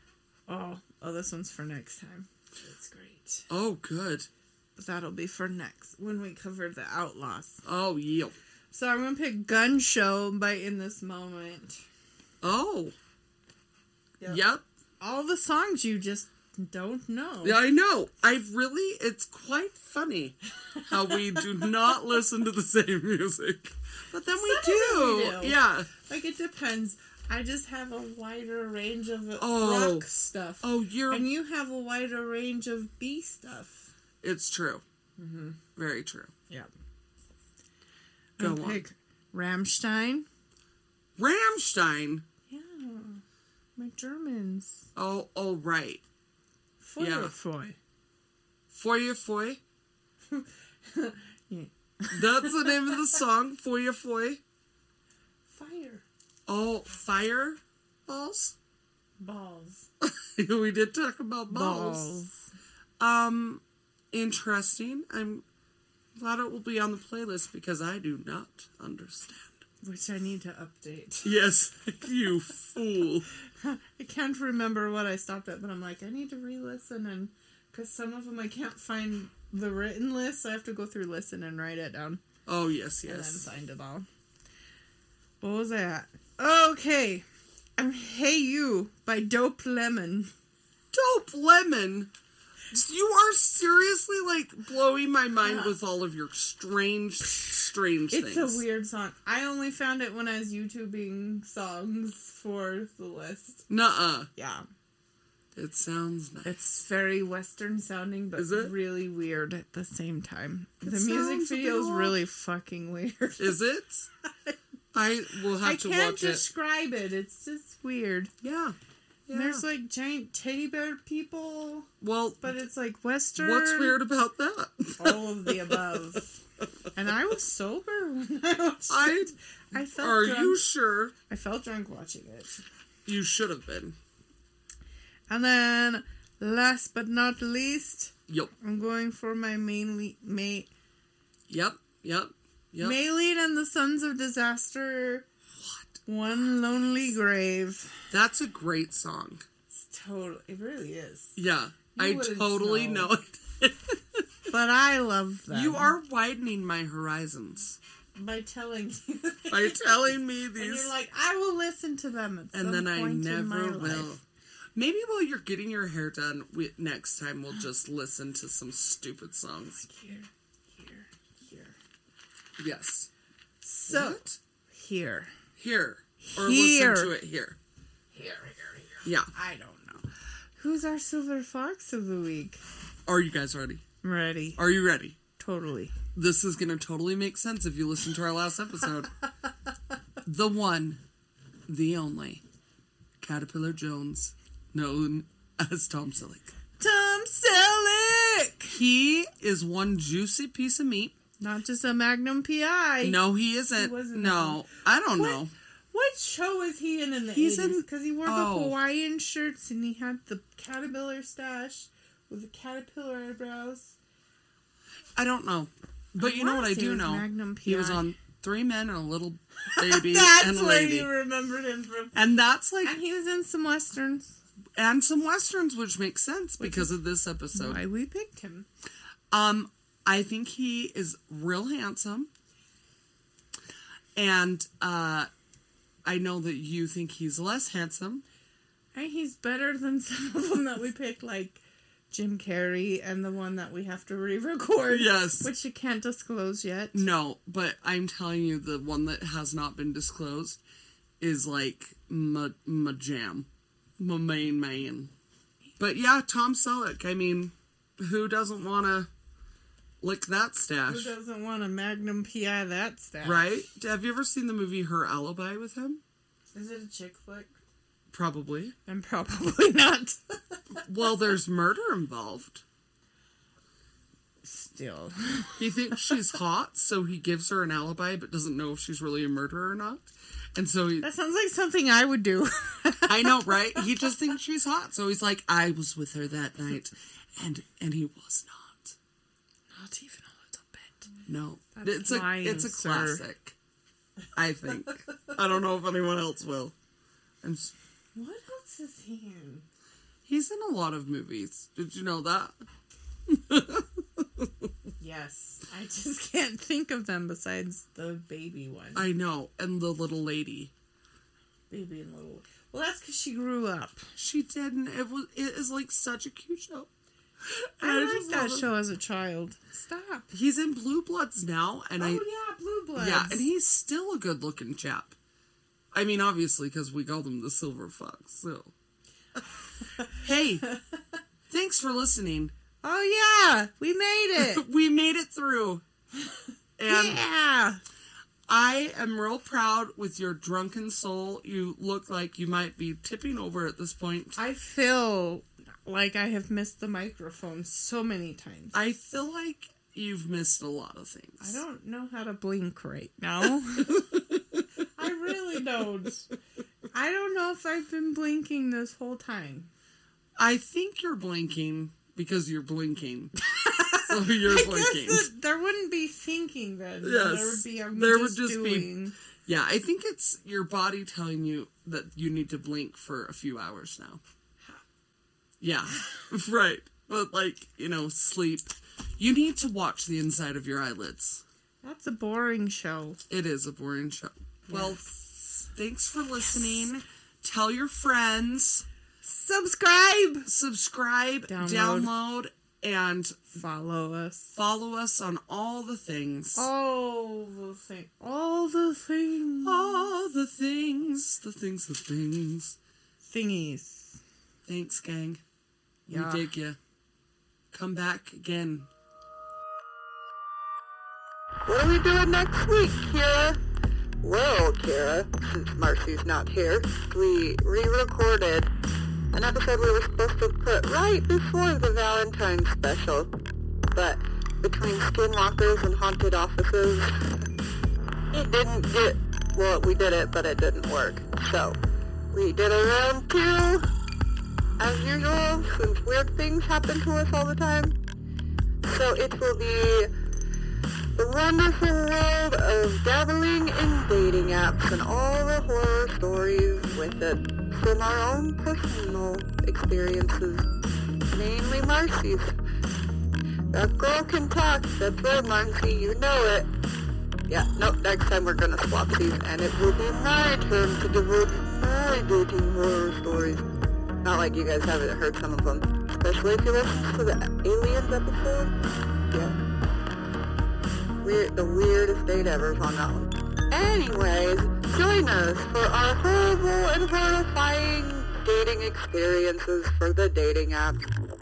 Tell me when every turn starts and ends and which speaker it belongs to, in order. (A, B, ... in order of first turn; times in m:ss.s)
0:00.5-0:03.5 A
0:03.5-0:04.3 B
0:04.8-0:07.6 A
0:07.6-0:08.4 B
0:08.7-0:11.8 A
0:12.4-0:13.0 B
0:14.3-0:14.6 B
0:15.0-0:17.6 A
0:17.4-0:25.9 B
0:24.3-0:33.9 A
0:29.4-0:30.1 B
0:30.6-0:31.3 B
0:34.2-0:34.8 B
0:35.2-0:35.6 A
0:35.8-0:36.3 B
0:38.4-0:40.3 A
0:38.4-0:38.8 B
0:41.2-0:42.2 B
0:42.5-0:43.2 A
0:43.8-0:44.9 A
0:45.0-0:46.0 B
0:46.8-0:47.8 A
0:47.0-0:47.3 B
0:48.7-0:49.6 B
0:50.3-0:53.2 A
0:52.1-0:54.4 B
0:55.5-0:56.0 A
0:56.5-0:58.6 B
0:59.2-0:59.9 A
1:00.0-1:02.2 B
1:01.5-1:02.4 A
1:03.0-1:05.4 B
1:06.2-1:09.6 B
1:09.8-1:11.4 A
1:11.2-1:13.3 B
1:13.6-1:22.2 A
1:22.5-1:23.5 B
1:23.0-1:24.1 A
1:25.4-1:27.3 A
1:27.8-1:30.3 A
1:30.9-1:32.1 B
1:32.7-1:38.6 B
1:35.4-1:35.7 A
1:38.1-1:43.7 A
1:43.7-1:44.3 B
1:44.4-1:44.7 A
1:45.6-1:46.5 B
1:46.4-1:53.6 A
1:48.4-1:48.7 B
1:50.8-1:52.2 B
1:53.4-1:54.1 B
1:54.2-1:54.6 A
1:54.9-1:56.4 B
1:55.6-1:58.3 A
1:58.4-1:58.8 B
1:59.3-1:59.6 B
1:59.3-2:01.9 A
2:02.0-2:02.6 B
2:02.4-2:04.0 A
2:03.4-2:06.0 B
2:05.0-2:06.4 A
2:06.9-2:10.7 A
2:08.9-2:11.1 B
2:11.3-2:12.6 A
2:13.1-2:14.0 B
2:15.3-2:20.7 A
2:18.3-2:18.5 B
2:21.5-2:23.0 B
2:22.8-2:25.3 A
2:25.6-2:25.9 B
2:26.1-2:28.0 A
2:28.1-2:29.4 B
2:29.7-2:31.4 A
2:31.4-2:34.2 B
2:31.9-2:33.1 A
2:34.5-2:35.9 A
2:35.5-2:37.8 B
2:38.2-2:44.2 A
2:39.5-2:40.9 B
2:42.5-2:44.2 B
2:44.8-2:49.8 B
2:49.8-2:51.8 A
2:52.6-2:53.1 B
2:53.6-2:55.3 A
2:53.9-2:54.4 B
2:55.6-2:57.6 B
2:56.2-2:57.1 A
2:58.1-3:00.1 A
2:59.0-2:59.3 B
3:00.6-3:02.6 A
3:03.1-3:03.8 B
3:04.0-3:04.6 A
3:04.6-3:05.2 B
3:05.4-3:05.9 A
3:06.1-3:09.1 B
3:10.2-3:11.0 B
3:11.7-3:12.4 B
3:13.2-3:16.5 B
3:16.8-3:18.8 A
3:18.7-3:21.2 B
3:21.4-3:23.2 A
3:23.0-3:25.5 B
3:23.7-3:33.9 A
3:27.3-3:28.8 B
3:35.2-3:41.1 B
3:36.2-3:38.1 A
3:39.7-3:42.2 A
3:42.1-3:43.0 B
3:42.8-3:44.4 A
3:44.8-3:47.8 B
3:46.6-3:47.0 A
3:47.5-3:48.7 A
3:49.3-3:52.3 B
3:54.2-3:55.3 B
3:56.0-3:58.2 B
3:59.0-4:07.0 A
4:04.9-4:05.5 B
4:06.9-4:10.6 B
4:11.2-4:15.1 B
4:15.8-4:19.1 B
4:20.0-4:21.1 B
4:20.9-4:23.6 A
4:23.2-4:26.0 B
4:26.5-4:27.6 A
4:28.1-4:28.8 B
4:28.9-4:30.8 A
4:30.8-4:32.6 B
4:34.4-4:36.1 A
4:35.6-4:41.1 B
4:41.0-4:44.1 A
4:43.1-4:49.0 B
4:49.7-4:51.1 A
4:51.3-4:53.6 B
4:51.8-4:53.2 A
4:54.3-4:56.8 B
4:57.4-4:57.7 B
4:58.2-4:59.6 A
5:00.3-5:02.6 B
5:03.3-5:04.7 B
5:05.0-5:09.1 A
5:09.0-5:10.7 B
5:11.7-5:14.1 A
5:14.2-5:16.9 B
5:17.5-5:20.3 A
5:17.8-5:18.7 B
5:20.3-5:22.2 B
5:22.0-5:23.5 A
5:23.0-5:25.2 B
5:25.9-5:28.7 B
5:30.1-5:30.7 B
5:31.5-5:32.5 B
5:32.8-5:34.6 A
5:34.4-5:35.8 B
5:36.8-5:37.2 B
5:36.9-5:37.8 A
5:38.5-5:44.4 B
5:44.4-5:48.8 A
5:48.7-5:51.6 B
5:51.4-5:54.2 A
5:53.9-5:54.3 B
5:55.0-5:56.3 A
5:56.9-5:59.7 A
6:00.4-6:03.3 B
6:03.5-6:09.1 A
6:03.9-6:05.3 B
6:07.0-6:08.9 B
6:09.5-6:14.2 B
6:15.6-6:21.4 B
6:21.8-6:23.2 A
6:23.3-6:28.9 B
6:24.7-6:25.1 A
6:29.2-6:30.5 A
6:30.5-6:33.4 B
6:31.5-6:32.1 A
6:33.5-6:34.6 A
6:34.6-6:36.7 B
6:36.6-6:40.1 A
6:39.6-6:42.8 B
6:43.2-6:44.2 A
6:44.7-6:45.4 B
6:46.1-6:46.8 B
6:46.1-6:46.5 A
6:47.7-6:48.9 B
6:51.7-6:53.6 C
6:54.2-6:58.7 C
6:59.3-7:03.3 C
7:03.9-7:07.1 C
7:08.3-7:11.8 C
7:12.3-7:13.9 C
7:14.8-7:18.0 C
7:18.8-7:20.1 C
7:21.2-7:30.7 C
7:31.3-7:32.6 C
7:33.7-7:36.7 C
7:37.5-7:43.6 C
7:44.2-7:48.7 C
7:49.3-7:49.6 C
7:51.2-8:01.0 C